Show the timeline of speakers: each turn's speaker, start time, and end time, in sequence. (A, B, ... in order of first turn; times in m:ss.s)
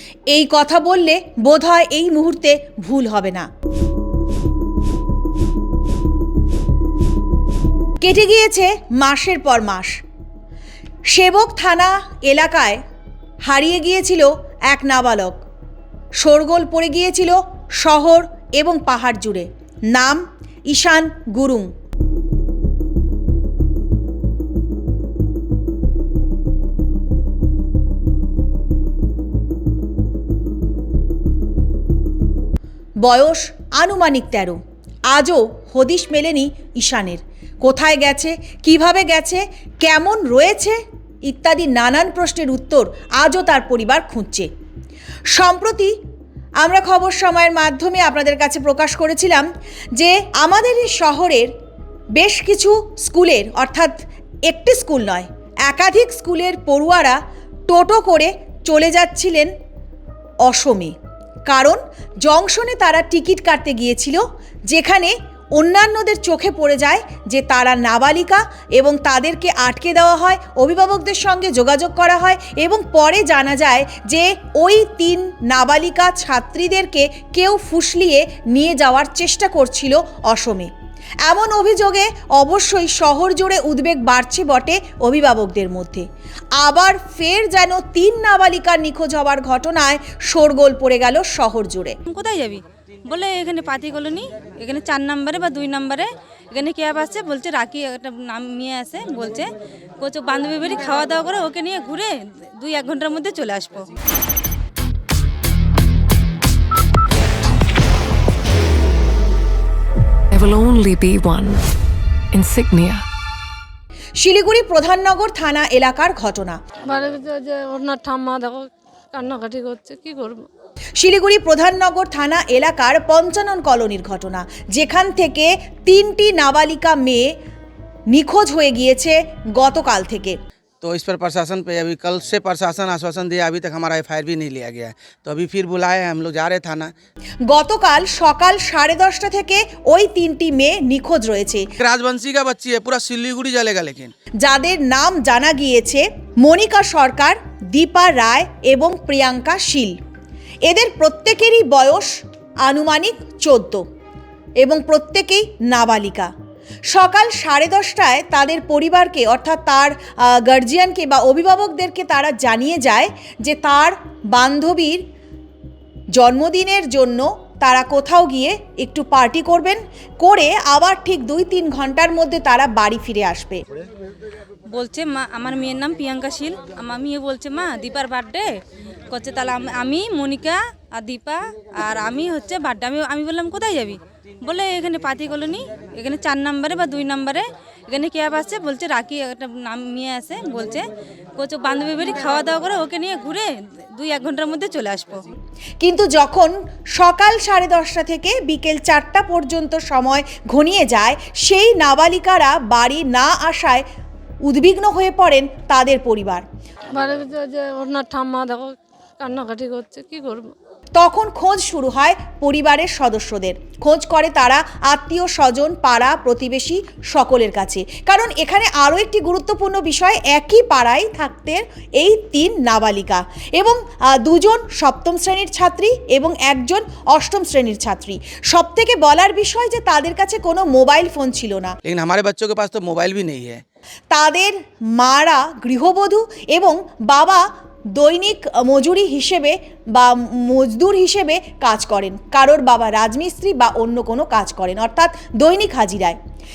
0:00.3-0:03.5 A
0:08.0-0:10.0 A
0:11.1-0:12.8 A
0:13.4-0:15.4 A
0:16.2-0:21.7 A
0:33.0-0:34.6 A
0:35.1-0:44.5 A
0:45.3-0:45.9 A
0:46.6-0:49.5 A
0:50.0-0:51.5 A
0:52.2-0:54.0 A
0:54.5-0:59.5 A
1:00.4-1:01.0 A
1:01.5-1:20.7 A
1:21.2-1:26.1 A
1:26.6-1:32.0 A
1:32.1-1:43.8 B
1:50.3-1:51.6 C
1:52.3-1:53.0 C
1:54.2-1:56.6 A
1:56.8-1:58.6 D
1:59.1-2:00.4 D
2:01.0-2:07.3 A
2:08.1-2:10.4 A
2:10.8-2:16.9 E
2:17.5-2:21.7 A
2:21.8-2:24.1 E
2:24.4-2:30.0 A
2:30.7-2:33.8 A
2:34.6-2:36.3 A
2:36.9-2:45.0 A
2:46.2-2:53.6 A
2:54.7-2:58.5 B
2:59.1-3:10.8 B
3:11.4-3:15.2 B
3:15.8-3:23.8 A
3:24.4-3:26.4 A
3:26.9-3:28.7 D
3:29.2-3:30.4 D
3:31.0-3:51.8 A
3:51.8-3:53.6 E
3:54.1-3:57.4 A
3:58.0-4:06.2 A